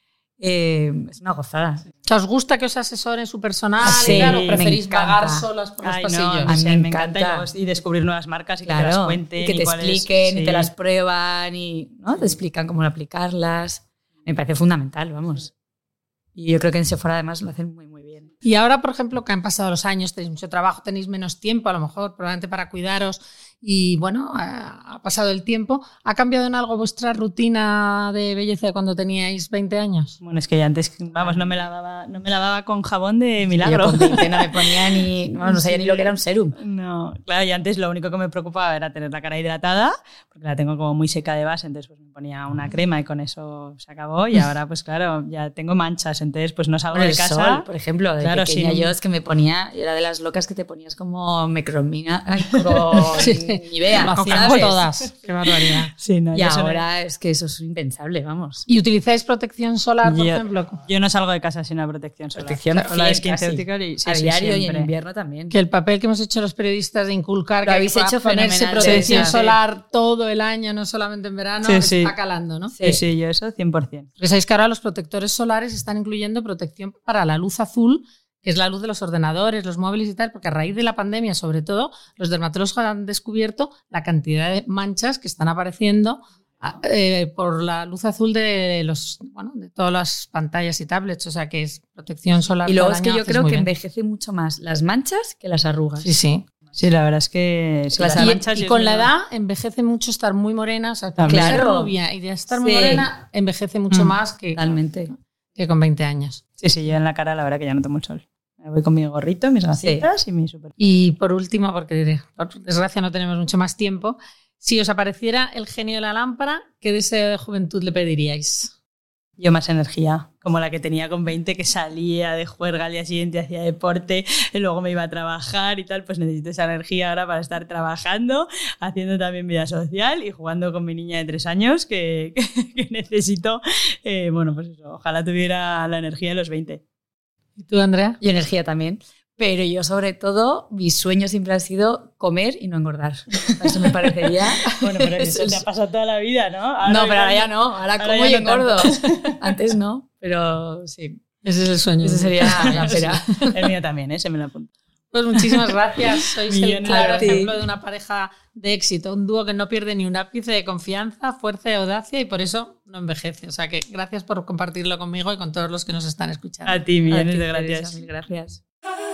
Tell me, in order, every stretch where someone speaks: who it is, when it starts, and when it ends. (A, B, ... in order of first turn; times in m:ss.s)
0:00.4-0:01.8 A
0:02.0-0:06.6 B
0:03.8-0:05.4 A
0:03.8-0:04.6 C
0:05.8-0:10.7 C
0:06.5-0:07.5 A
0:08.6-0:15.5 A
0:16.4-0:18.3 A
0:18.4-0:30.2 B
0:30.2-0:34.6 C
0:33.6-0:36.6 A
0:35.4-0:47.6 C
0:46.9-0:54.8 A
0:48.2-0:48.9 C
0:52.6-0:53.2 C
0:53.2-0:55.9 B
0:53.9-0:56.8 C
0:56.3-0:58.6 A
0:58.7-1:00.8 B
1:00.0-1:04.9 C
1:02.3-1:05.5 A
1:05.5-1:12.7 B
1:07.6-1:09.4 A
1:08.8-1:09.6 C
1:11.6-1:12.1 C
1:12.7-1:13.0 A
1:12.8-1:14.1 C
1:14.2-1:33.7 B
1:32.6-1:36.1 A
1:36.0-1:36.4 B
1:36.7-1:39.1 C
1:37.9-1:38.4 A
1:38.2-1:44.7 B
1:41.2-1:41.6 C
1:41.3-1:41.9 A
1:42.5-1:43.1 A
1:43.9-1:44.2 C
1:44.5-1:45.1 A
1:45.6-1:46.4 B
1:46.6-1:50.7 C
1:49.7-1:50.1 A
1:50.8-1:58.7 B
1:59.4-2:16.8 C
2:17.6-2:18.2 B
2:18.2-2:25.6 A
2:24.6-2:29.4 C
2:26.8-2:31.2 A
2:31.4-2:33.5 B
2:32.0-2:33.4 A
2:32.4-2:34.7 C
2:35.1-2:46.8 B
2:36.5-2:37.4 C
2:36.8-2:37.6 A
2:46.6-2:48.0 C
2:47.1-2:48.6 A